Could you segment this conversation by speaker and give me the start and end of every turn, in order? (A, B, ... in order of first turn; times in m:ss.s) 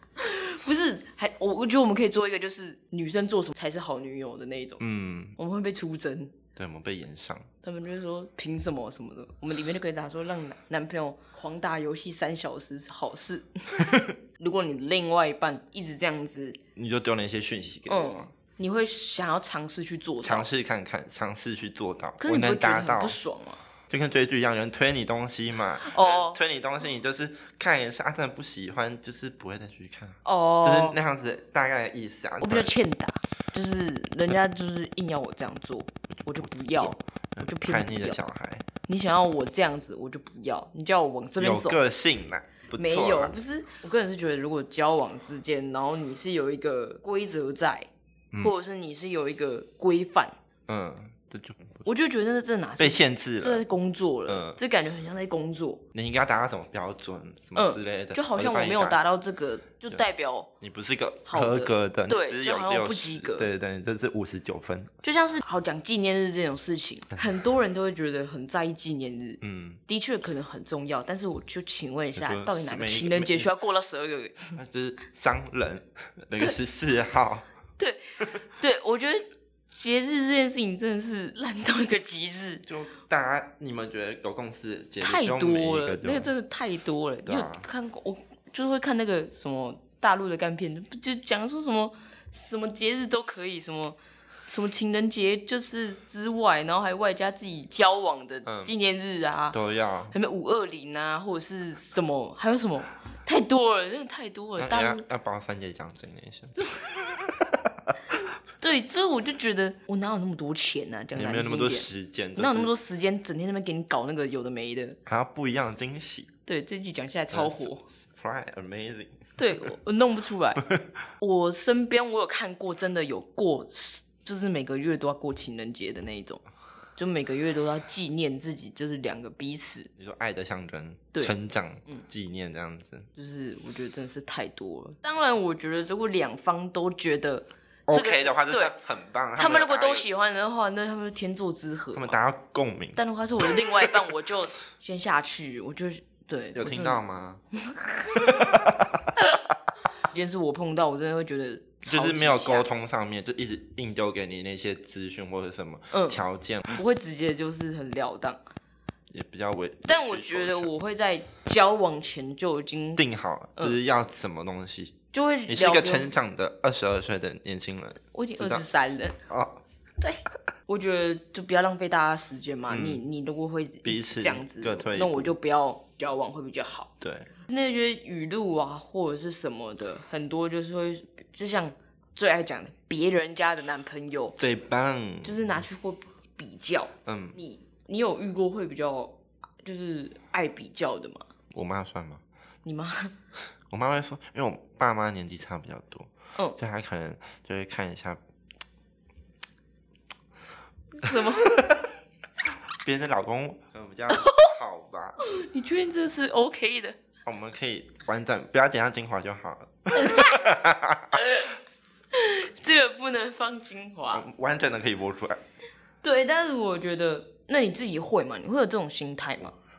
0:00.2-0:04.8 A
0:04.8-0:05.4 B
0:05.4-0:06.3 A
0:06.6-0:07.5 B
0:07.6-0:16.6 A
0:13.8-0:14.1 B
0:16.8-0:18.3 B
0:17.9-0:20.5 A
0:20.2-0:23.2 B
0:22.2-0:23.6 A
0:23.9-0:32.7 B
0:25.8-0:26.4 A
0:30.2-0:31.0 A
0:32.4-0:38.2 A
0:36.7-0:38.6 B
0:38.9-0:41.8 A
0:41.4-0:43.4 B
0:42.7-0:47.9 A
0:48.4-0:50.3 A
0:50.7-0:51.8 B
0:51.8-0:55.8 A
0:52.8-0:53.6 B
0:54.3-0:54.6 B
0:55.9-0:59.0 B
0:57.6-1:00.5 A
1:00.6-1:04.9 B
1:01.3-1:03.5 A
1:05.0-1:14.6 A
1:09.4-1:09.8 B
1:12.2-1:13.5 B
1:14.6-1:17.4 B
1:17.8-1:22.6 A
1:22.6-1:26.3 B
1:25.0-1:39.6 A
1:27.2-1:27.7 B
1:38.4-1:38.7 B
1:39.5-1:40.1 B
1:40.1-1:45.0 A
1:44.6-1:46.6 B
1:46.6-1:47.0 A
1:47.3-1:48.2 B
1:48.6-1:55.0 A
1:51.1-1:52.7 B
1:55.0-1:56.3 B
1:56.4-1:57.8 A
1:57.3-1:59.1 B
1:59.4-2:06.4 A
2:07.0-2:09.9 A
2:10.0-2:13.1 B
2:13.2-2:18.7 A
2:17.9-2:20.1 B
2:19.4-2:22.2 A
2:21.9-2:23.0 B
2:23.0-2:27.0 A
2:26.5-2:27.4 B
2:27.6-2:28.5 A
2:28.1-2:29.0 B
2:30.0-2:32.7 A
2:31.8-2:36.8 B
2:35.9-2:38.4 A
2:39.1-2:40.7 B
2:39.8-2:43.0 A
2:43.0-2:44.9 B
2:45.1-2:46.1 A
2:45.5-2:48.6 B
2:48.1-2:49.2 A
2:49.3-2:49.6 B
2:50.0-2:56.9 A
2:52.7-2:53.0 B
2:53.8-2:55.3 B
2:57.0-2:57.3 B
2:57.4-3:04.4 A
3:04.4-3:05.4 B
3:05.2-3:11.3 A
3:07.0-3:07.4 B
3:11.5-3:12.2 B
3:12.6-3:13.1 A
3:13.7-3:18.2 B
3:20.9-3:21.6 A
3:21.0-3:21.9 B
3:22.7-3:25.2 B
3:24.1-3:24.5 A
3:25.2-3:27.0 A
3:27.2-3:31.2 B
3:30.0-3:30.3 A
3:31.1-3:31.5 A
3:32.1-3:34.2 A
3:34.1-3:35.4 B
3:36.0-3:39.5 A